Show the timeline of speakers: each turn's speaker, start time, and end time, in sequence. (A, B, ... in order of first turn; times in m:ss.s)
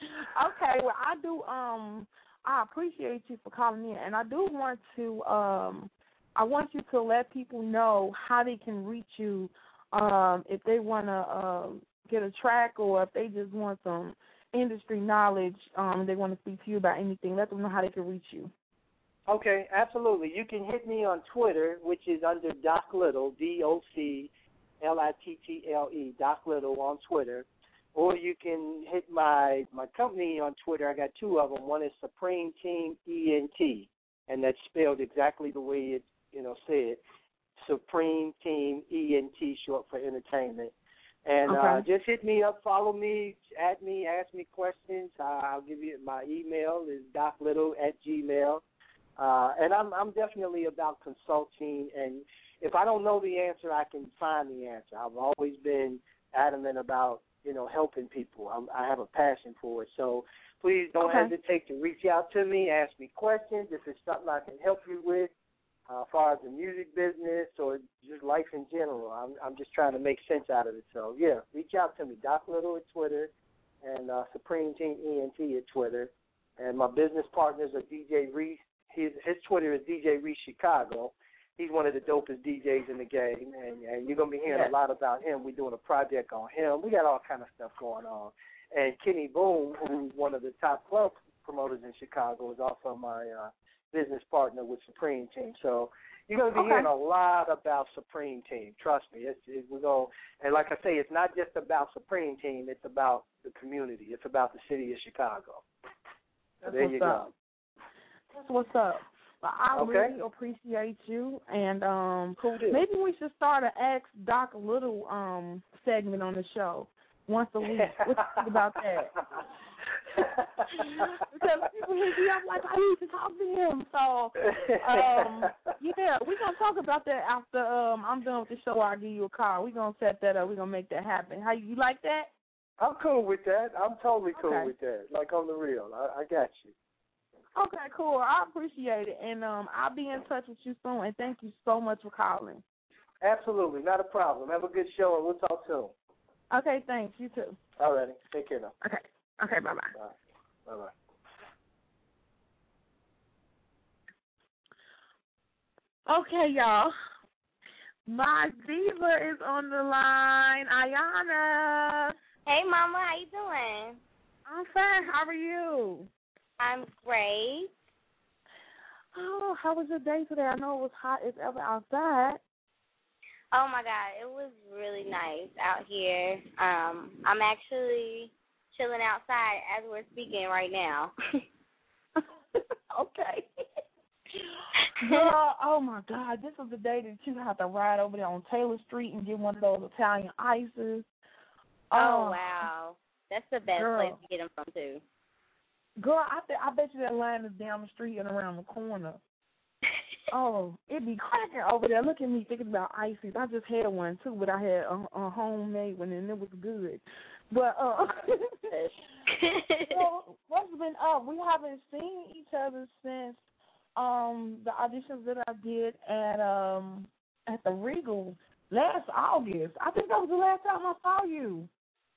0:00.3-0:18.5 A
0:19.3-0:37.0 B
0:37.6-0:40.7 B
0:41.2-0:48.6 B
0:41.5-0:41.8 A
0:49.2-1:05.3 B
1:01.0-1:01.3 A
1:05.9-1:13.3 B
1:13.8-1:45.6 B
1:24.5-1:24.7 A
1:36.5-1:36.9 A
1:46.6-1:47.3 A
1:46.6-1:47.3 B
1:48.3-1:59.1 A
1:49.8-1:50.2 B
1:52.4-1:52.8 B
1:57.7-1:58.7 B
2:00.2-2:01.1 B
2:00.8-2:12.3 A
2:04.4-2:05.7 B
2:12.8-2:16.7 B
2:14.4-2:14.7 A
2:17.6-2:22.6 A
2:23.2-2:25.9 B
2:26.5-2:27.6 A
2:27.8-2:28.7 B
2:28.8-2:29.9 A
2:29.9-2:30.9 B
2:36.1-2:36.9 A
2:38.1-2:42.1 A
2:42.5-2:44.0 C
2:44.5-2:46.1 A
2:46.6-2:47.7 C
2:49.2-2:52.4 A
2:53.5-3:01.1 C
3:02.9-3:03.4 A
3:05.0-3:11.1 A
3:11.9-3:12.5 A
3:11.9-3:15.0 C
3:13.7-3:14.2 A
3:16.0-3:19.2 A
3:20.3-3:28.3 A
3:29.4-3:30.0 C
3:29.9-3:33.4 A
3:34.0-3:41.7 A